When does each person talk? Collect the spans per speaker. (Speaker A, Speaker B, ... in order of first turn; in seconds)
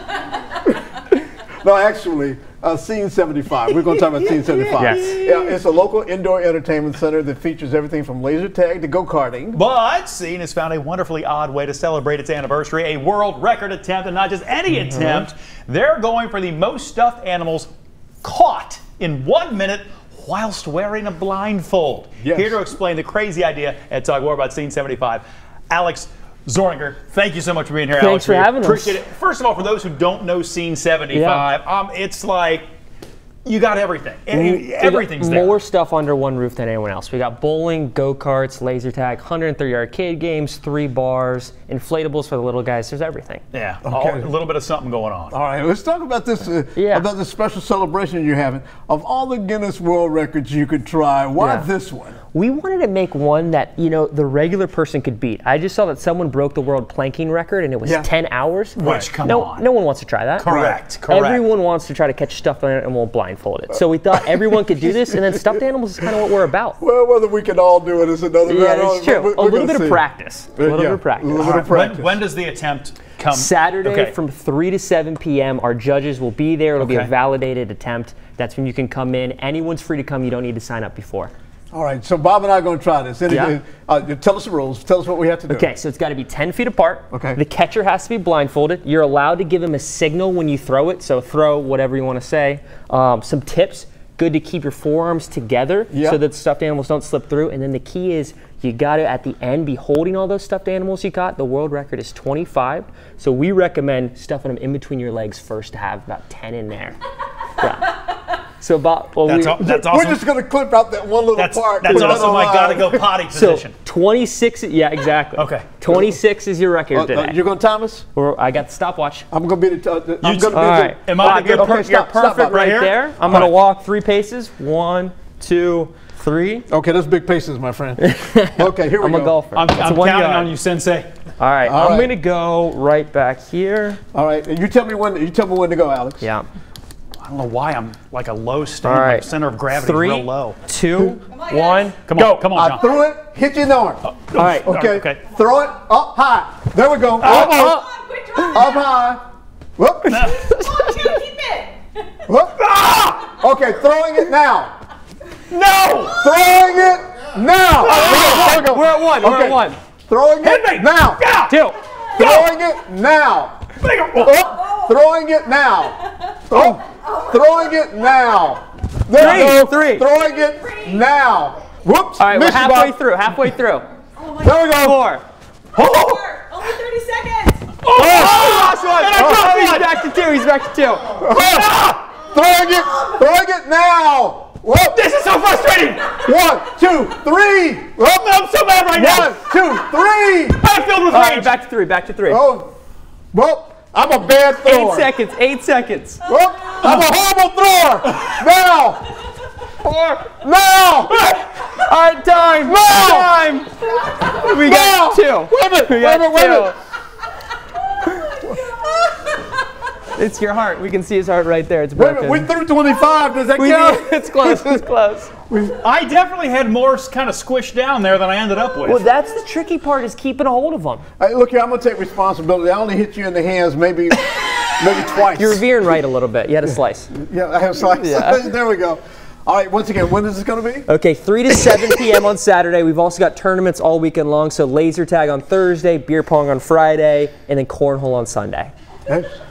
Speaker A: 1.6-9.6, 22.2-22.6, 43.9-44.3, 45.3-52.2, 60.5-60.8, 64.5-65.6, 66.8-70.0, 70.6-72.2, 81.7-85.7, 87.1-87.4, 95.9-96.2, 109.6-113.1, 116.9-118.1, 119.3-122.6, 123.3-123.5, 126.7-129.4, 131.7-132.1, 134.1-136.3, 142.2-147.8, 148.4-149.2, 149.8-150.3, 152.3-152.6, 153.2-154.7, 156.2-161.2, 162.1-163.6, 164.2-173.5, 174.3-175.1, 177.9-178.6, 181.2-185.1, 186.2-188.4, 188.9-190.6, 192.3-192.7, 193.3-195.1, 196.2-199.1, 200.1-201.3, 202.6-203.6, 204.4-206.7, 211.9-214.8, 215.5-215.8, 221.2-225.6, 226.7-230.9, 239.1-239.4
Speaker B: 4.8-5.5, 27.9-29.0, 31.1-31.5, 34.3-43.4, 46.8-47.1, 51.4-51.7, 52.3-66.8, 68.5-71.7, 73.3-81.3, 83.3-83.6, 85.5-107.0, 107.6-108.0, 108.6-109.7, 111.9-112.3, 113.3-117.4, 118.2-119.3, 120.5-126.7, 128.0-130.5, 131.4-134.0, 136.2-136.5, 138.8-142.2, 147.3-147.9, 150.4-151.2, 157.8-159.8, 161.5-161.8, 169.1-170.1, 172.2-173.9, 174.7-175.2, 178.0-181.1, 191.1-192.4, 194.6-196.2, 199.8-200.2, 201.6-203.7, 204.2-206.8, 210.2-212.5, 213.6-215.3, 218.8-221.1, 225.3-227.1, 227.9-228.5, 230.9-238.7
Speaker C: 9.5-17.7, 18.2-32.7, 33.5-35.6, 43.5-45.4, 58.8-59.6, 60.4-61.5, 71.4-74.1, 76.8-77.1, 109.3-110.2, 111.3-113.8, 115.4-115.7, 120.2-123.5, 129.5-131.1, 137.2-140.6, 142.1-142.9, 144.1-145.2, 147.2-147.7, 150.1-150.5, 152.6-153.3, 155.5-156.2, 160.4-161.6, 162.2-162.5, 163.8-164.4, 175.8-176.3, 177.8-180.1, 181.3-182.1, 184.9-186.3, 188.0-189.5, 190.6-191.5, 198.2-198.4, 215.8-219.1
Speaker D: 148.1-148.6, 150.8-151.7, 176.3-177.6